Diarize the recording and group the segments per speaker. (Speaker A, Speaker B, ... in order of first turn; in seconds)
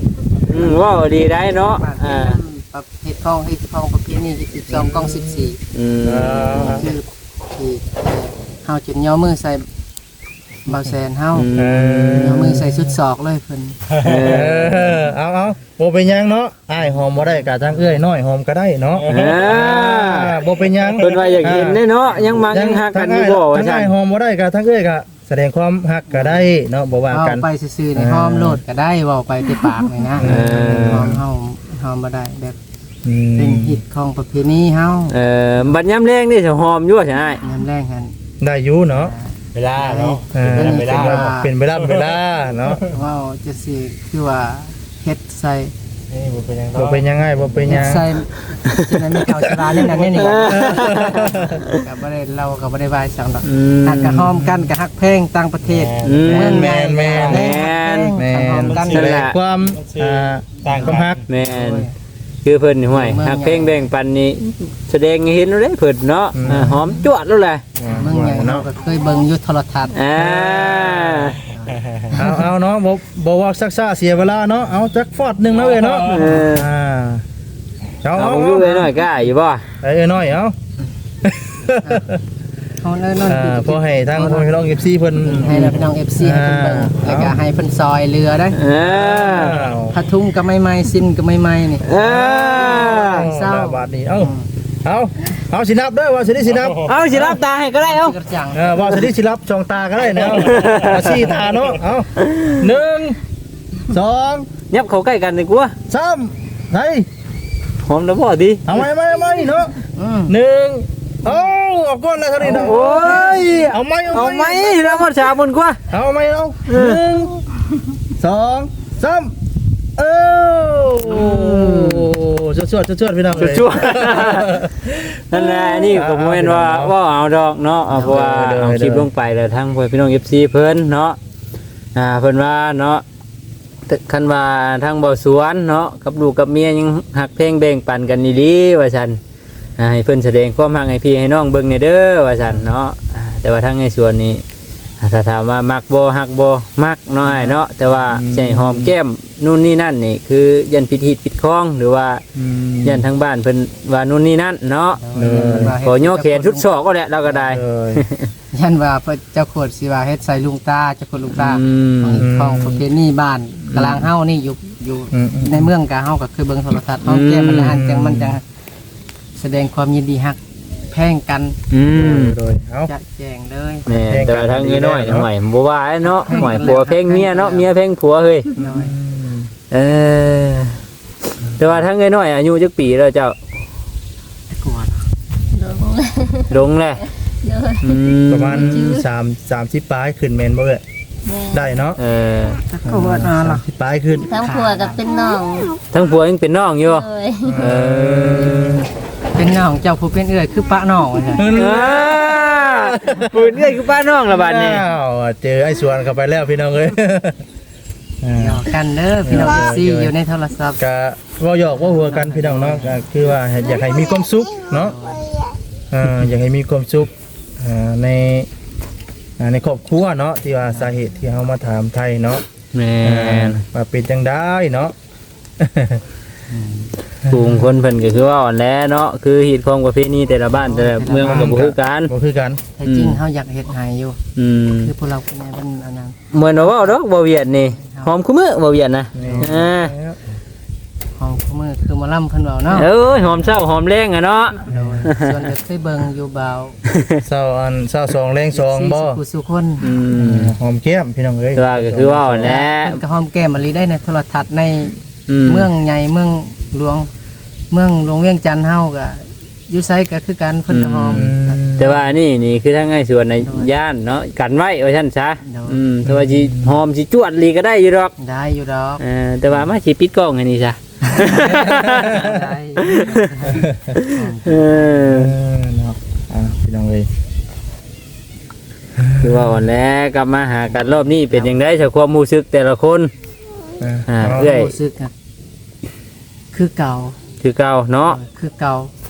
Speaker A: 0.5-2.4, 5.7-6.8, 11.3-12.6, 14.0-14.9, 19.1-20.4, 21.0-23.9, 30.2-31.1, 35.1-37.4, 48.7-49.0, 50.1-51.2, 53.4-54.3, 56.0-58.2, 58.8-59.4, 61.3-61.9, 62.4-67.6, 69.9-71.4, 75.9-76.7, 78.1-79.7, 88.5-89.6, 91.8-93.3, 96.8-98.2, 100.2-101.3, 102.2-102.6, 104.7-105.7, 107.8-108.6, 112.4-115.8, 116.7-117.0, 121.1-122.1, 123.3-124.6, 125.3-131.2, 131.9-133.0, 133.9-139.2, 139.8-144.4, 145.0-152.2, 152.8-158.3, 161.3-162.2, 163.7-164.1, 167.0-167.7, 171.7-172.4, 173.9-178.5, 179.7-180.8, 181.6-183.3, 186.5-187.0, 187.8-188.9, 192.0-192.6, 195.9-198.8, 201.5-204.8, 222.7-223.6, 227.2-232.1, 232.8-233.2, 234.3-234.9, 236.3-239.9, 242.7-245.3, 246.9-247.2, 249.8-250.5, 251.6-253.0, 255.3-255.7, 260.7-268.1, 269.0-273.4, 273.9-275.3, 279.2-283.1, 284.1-284.7, 287.4-288.2
Speaker B: 1.6-5.6, 6.5-9.7, 10.7-11.5, 12.2-13.8, 17.1-17.5, 26.1-26.5, 27.1-32.6, 33.4-35.7, 37.4-38.1, 38.9-41.5, 42.9-45.7, 47.6-59.2, 60.6-61.9, 62.9-63.9, 67.8-70.4, 71.4-72.2, 81.8-82.1, 82.8-84.5, 85.2-88.6, 89.9-91.9, 92.5-94.5, 97.8-98.8, 110.0-110.3, 155.0-156.7, 158.5-168.4, 169.3-171.6, 172.9-173.9, 176.0-177.7, 178.6-178.9, 184.5-185.0, 192.7-193.6, 194.3-195.0, 199.3-201.5, 208.3-210.8, 211.7-213.0, 214.7-215.3, 226.5-226.9, 230.5-231.6, 232.8-234.2, 234.8-237.0, 237.7-238.1, 239.2-239.6, 241.2-242.9, 244.7-246.8, 248.5-249.9, 252.4-257.1, 257.7-261.6, 263.4-263.7, 265.4-265.8, 268.2-269.0, 271.0-275.2, 280.7-281.6, 284.3-285.1, 286.5-287.2, 288.0-288.9
Speaker C: 4.7-5.5, 6.0-6.9, 11.5-12.9, 14.1-28.6, 30.2-31.2, 33.0-33.8, 38.4-39.1, 40.3-42.9, 46.7-48.1, 50.4-51.6, 54.4-54.7, 56.0-57.6, 58.1-61.2, 66.3-67.0, 67.8-68.7, 70.2-71.3, 72.1-77.2, 78.0-78.9, 79.8-80.5, 81.2-82.2, 83.2-87.3, 88.9-90.0, 91.9-94.3, 94.8-97.4, 98.5-103.2, 103.9-104.5, 105.9-107.1, 108.7-109.8, 110.3-115.1, 115.9-117.4, 118.2-119.3, 120.0-126.9, 127.9-129.1, 148.1-148.9, 152.3-153.1, 155.1-155.7, 157.2-158.0, 162.1-162.8, 165.1-165.7, 167.5-168.4, 171.9-172.9, 174.0-175.3, 178.6-179.5, 188.3-190.8, 191.5-192.0, 192.8-194.3, 197.5-198.9, 201.3-203.7, 204.3-207.4, 208.2-208.7, 209.2-210.1, 210.8-215.0, 215.9-218.5, 219.4-222.4, 223.0-224.9, 225.6-226.0, 227.2-227.7, 231.2-232.6, 239.2-240.2, 244.7-245.1, 247.2-249.2, 250.2-252.6, 261.1-262.0, 266.0-266.8, 271.9-272.4, 273.5-273.9, 275.1-277.1, 278.9-279.5, 283.8-284.5
Speaker D: 39.5-41.2, 46.1-47.7, 55.8-56.2, 59.8-60.9
Speaker E: 185.5-186.6, 187.4-189.1, 191.2-191.7, 194.2-195.8, 196.8-197.7, 215.3-215.5